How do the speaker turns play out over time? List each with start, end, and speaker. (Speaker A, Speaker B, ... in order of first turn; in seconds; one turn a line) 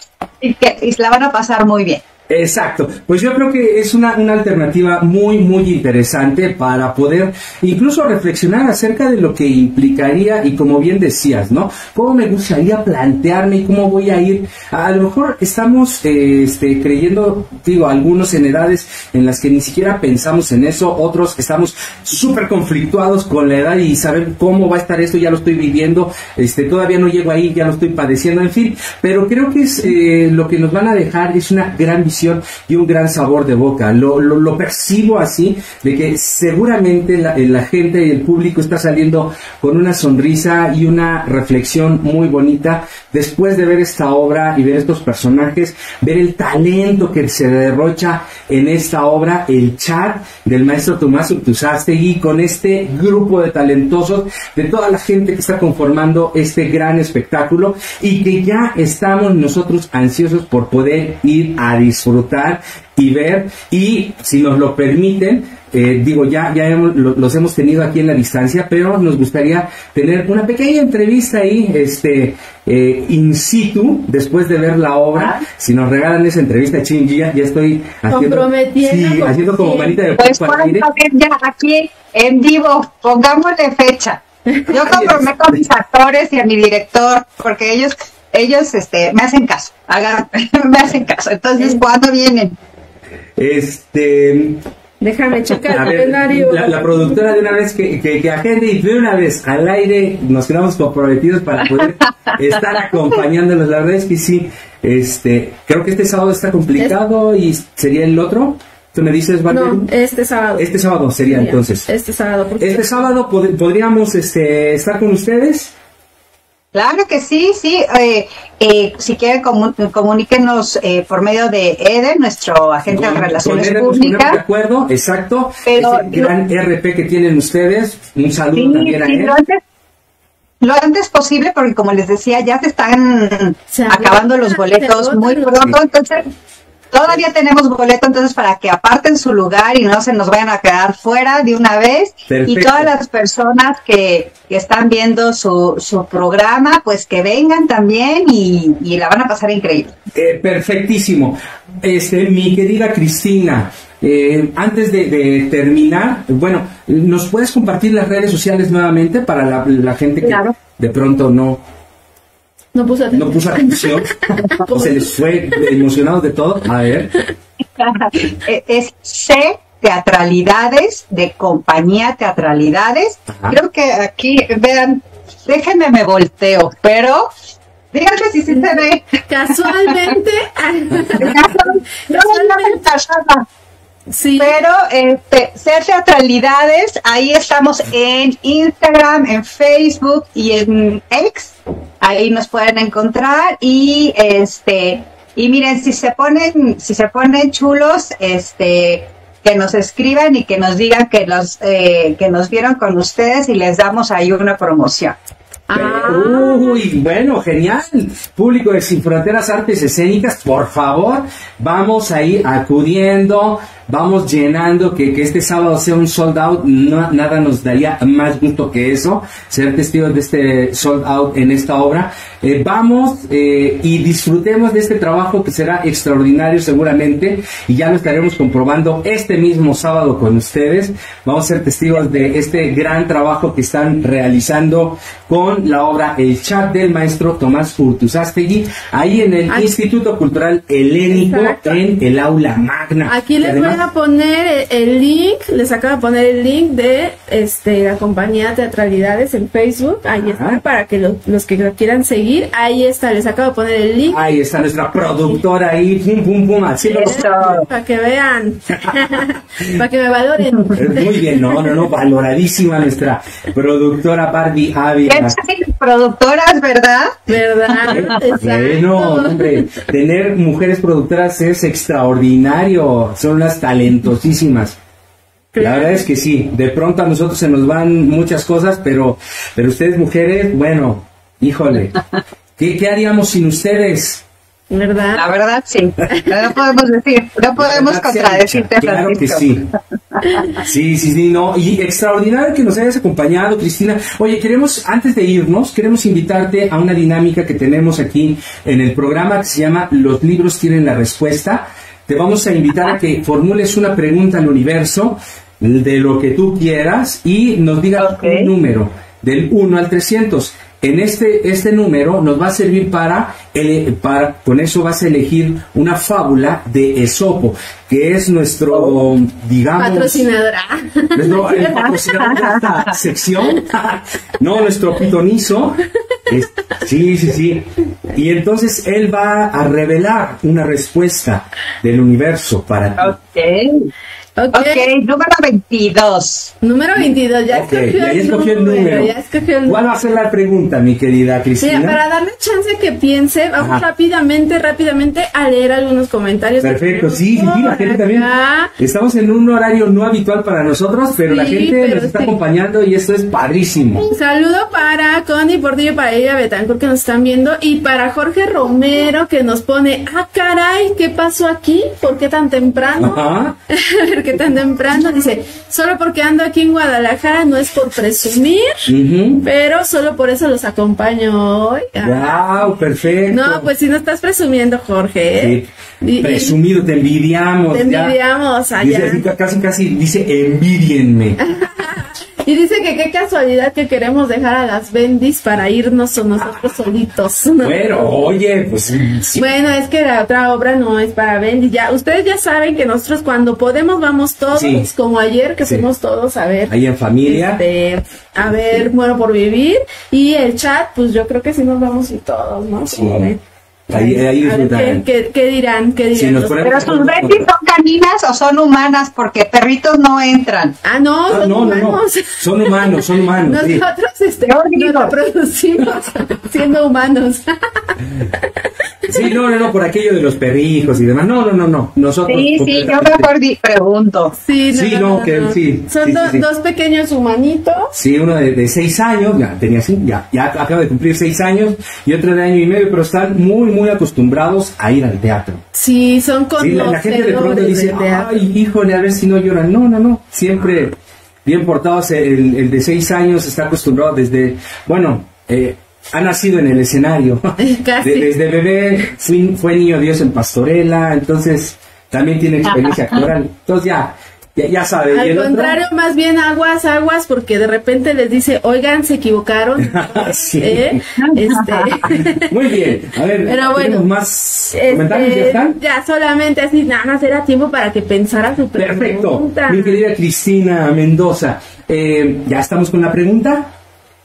Speaker A: 0.4-2.0
Speaker B: 2.3-80.9
Speaker C: 78.1-80.0
Speaker A: 80.2-92.5
Speaker B: 84.9-85.3
Speaker B: 93.4-94.6
Speaker C: 95.0-97.4
Speaker B: 95.7-109.9
Speaker C: 109.5-110.7
Speaker B: 110.6-111.9
Speaker C: 111.3-113.1
Speaker B: 112.6-115.7
Speaker A: 116.7-124.4
Speaker B: 122.9-129.4
Speaker A: 125.7-126.3
Speaker A: 128.5-129.6
Speaker A: 130.6-136.2
Speaker C: 133.7-135.7
Speaker A: 136.9-149.9
Speaker B: 142.3-142.9
Speaker B: 150.1-161.6
Speaker A: 160.2-160.5
Speaker C: 162.7-165.6
Speaker B: 163.1-167.1
Speaker A: 167.8-177.3
Speaker A: 177.9-179.1
Speaker C: 178.5-181.5
Speaker A: 179.7-180.1
Speaker A: 181.2-183.4
Speaker C: 182.0-182.8
Speaker C: 184.1-184.6
Speaker A: 184.4-205.2
Speaker C: 205.7-206.8
Speaker B: 205.7-243.8
Speaker C: 241.1-241.8
Speaker C: 243.1-254.2
Speaker B: 250.2-250.6
Speaker B: 254.1-257.6
Speaker A: 256.8-257.6
Speaker C: 257.0-261.6
Speaker B: 260.7-265.4
Speaker A: 265.1-268.1
Speaker C: 267.3-269.7
Speaker B: 267.9-274.8
Speaker C: 275.5-276.0
Speaker B: 275.6-282.0
Speaker B: 282.6-284.2
Speaker C: 284.7-285.3
Speaker A: 285.1-290.2
Speaker C: 286.1-286.4
Speaker B: 287.6-289.7
Speaker B: 290.6-320.3
Speaker A: 308.0-308.5
Speaker C: 319.8-321.9
Speaker B: 321.1-333.2
Speaker A: 321.7-322.9
Speaker A: 333.0-333.9
Speaker C: 334.4-334.9
Speaker A: 334.5-336.5
Speaker C: 336.6-339.8
Speaker B: 336.9-339.1
Speaker B: 339.6-342.0
Speaker C: 341.6-348.7
Speaker B: 343.6-343.8
Speaker B: 346.6-354.1
Speaker C: 351.3-352.4
Speaker C: 354.1-368.9
Speaker B: 363.0-363.6
Speaker B: 368.9-369.4
Speaker C: 369.4-376.6
Speaker B: 372.0-373.7
Speaker B: 375.4-378.1
Speaker C: 377.7-379.2
Speaker B: 378.8-381.4
Speaker C: 381.4-388.2
Speaker B: 386.4-386.7
Speaker B: 387.6-389.5
Speaker C: 389.3-406.9
Speaker B: 394.5-394.9
Speaker B: 396.7-397.6
Speaker B: 398.4-398.9
Speaker B: 402.9-403.3
Speaker B: 403.9-405.0
Speaker B: 406.1-407.4
Speaker A: 406.6-410.8
Speaker C: 410.8-418.5
Speaker B: 411.3-413.8
Speaker A: 414.4-415.1
Speaker C: 419.1-419.4
Speaker B: 419.1-423.3
Speaker A: 422.3-424.3
Speaker C: 424.4-427.9
Speaker B: 424.7-426.4
Speaker B: 427.9-435.6
Speaker C: 435.7-438.5
Speaker B: 436.6-455.8
Speaker C: 447.6-448.3
Speaker C: 455.1-462.8
Speaker B: 459.8-461.0
Speaker A: 461.2-462.0
Speaker B: 462.0-465.8
Speaker C: 463.4-464.1
Speaker C: 464.7-470.0
Speaker B: 468.8-473.7